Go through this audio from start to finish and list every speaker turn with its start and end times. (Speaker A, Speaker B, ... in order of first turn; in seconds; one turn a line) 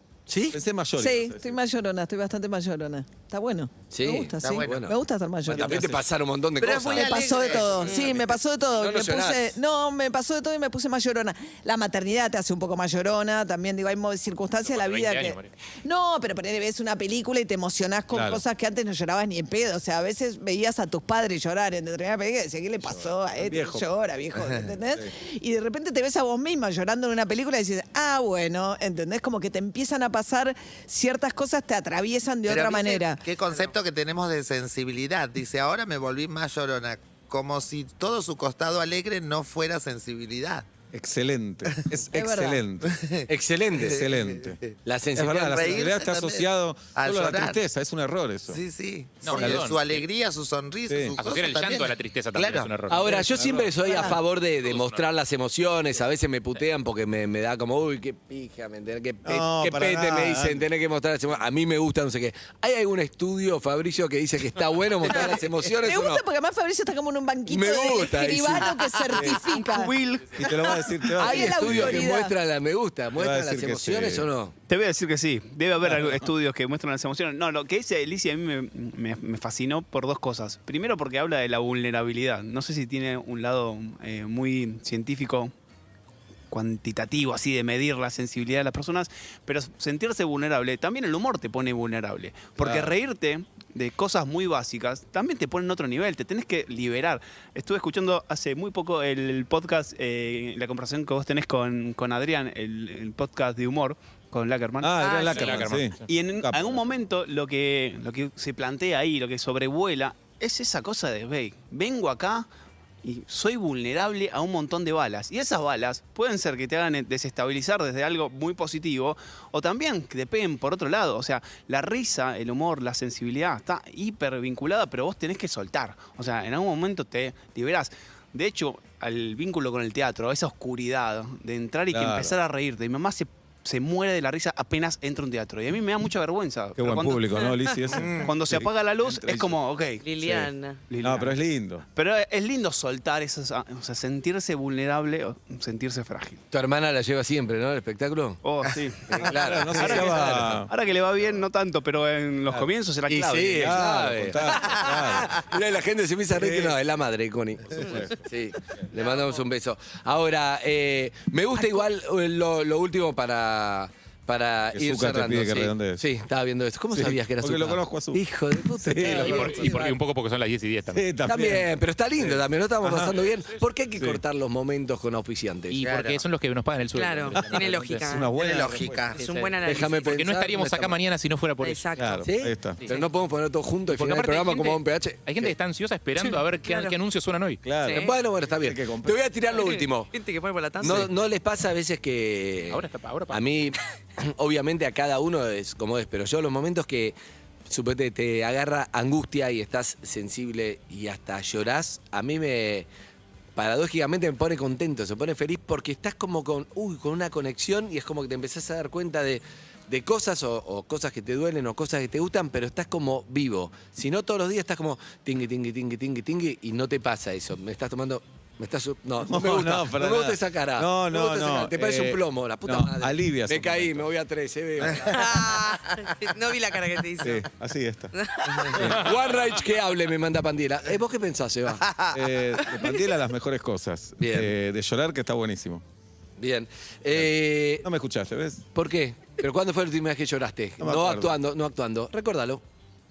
Speaker A: 0.3-0.6
Speaker B: 0.5-1.6
Speaker C: 1.0-5.9
Speaker A: 3.9-9.6
Speaker D: 4.4-4.8
Speaker B: 5.5-6.0
Speaker D: 6.6-8.1
Speaker C: 6.9-33.2
Speaker E: 7.8-8.2
Speaker F: 14.7-15.5
Speaker B: 18.1-18.4
Speaker B: 22.8-23.9
Speaker D: 32.5-40.7
Speaker B: 40.9-43.0
Speaker C: 42.1-42.6
Speaker D: 42.8-43.3
Speaker A: 43.3-44.0
Speaker D: 43.8-44.7
Speaker B: 43.8-44.6
Speaker A: 44.9-45.9
Speaker B: 45.2-48.6
Speaker D: 45.5-47.6
Speaker D: 48.5-52.7
Speaker F: 49.2-50.0
Speaker B: 49.3-49.7
Speaker B: 50.9-51.2
Speaker F: 51.2-53.1
Speaker A: 52.9-66.2
Speaker B: 53.1-53.8
Speaker C: 53.9-54.2
Speaker F: 54.6-55.1
Speaker B: 59.2-60.6
Speaker E: 65.1-65.4
Speaker C: 65.7-70.5
Speaker A: 67.5-68.8
Speaker B: 69.1-69.4
Speaker G: 69.2-70.4
Speaker B: 70.4-72.0
Speaker C: 71.1-72.3
Speaker A: 71.2-74.5
Speaker B: 73.2-74.3
Speaker G: 74.7-85.5
Speaker G: 86.5-105.2
Speaker B: 92.6-92.9
Speaker B: 104.8-106.8
Speaker E: 105.0-105.7
Speaker F: 105.1-106.0
Speaker G: 106.0-112.5
Speaker G: 113.0-137.3
Speaker B: 131.9-132.4
Speaker B: 136.8-139.6
Speaker E: 137.3-138.1
Speaker D: 138.0-138.3
Speaker G: 138.2-140.1
Speaker E: 140.0-140.9
Speaker B: 140.2-140.5
Speaker G: 140.9-141.4
Speaker B: 141.0-141.8
Speaker G: 141.9-146.4
Speaker A: 146.5-148.4
Speaker G: 148.4-153.8
Speaker A: 149.1-150.7
Speaker B: 149.2-150.7
Speaker A: 153.1-169.9
Speaker B: 153.6-155.4
Speaker B: 156.3-156.8
Speaker B: 157.7-158.2
Speaker E: 158.9-159.4
Speaker B: 164.7-166.0
Speaker B: 166.9-169.9
Speaker F: 169.1-171.1
Speaker B: 170.9-173.3
Speaker A: 171.3-175.8
Speaker B: 174.0-174.2
Speaker F: 175.7-178.1
Speaker D: 175.8-176.2
Speaker E: 176.9-178.3
Speaker B: 177.3-179.2
Speaker D: 178.3-179.2
Speaker E: 179.2-180.1
Speaker F: 179.2-182.1
Speaker A: 179.6-181.0
Speaker E: 181.6-182.2
Speaker B: 182.0-182.8
Speaker A: 182.2-185.5
Speaker E: 182.8-183.1
Speaker F: 183.9-188.0
Speaker E: 186.2-187.0
Speaker B: 187.6-189.2
Speaker E: 187.8-188.1
Speaker A: 187.9-190.1
Speaker E: 189.5-191.1
Speaker A: 190.8-197.2
Speaker F: 192.7-193.5
Speaker A: 197.7-202.9
Speaker A: 203.6-225.3
Speaker B: 219.2-224.1
Speaker E: 225.1-227.5
Speaker B: 227.2-228.1
Speaker E: 228.2-228.8
Speaker B: 228.7-229.3
Speaker A: 228.8-231.9
Speaker D: 231.8-232.2
Speaker B: 232.1-235.8
Speaker A: 234.2-234.5
Speaker A: 236.4-237.9
Speaker B: 237.1-238.7
Speaker A: 238.8-242.6
Speaker B: 240.8-241.3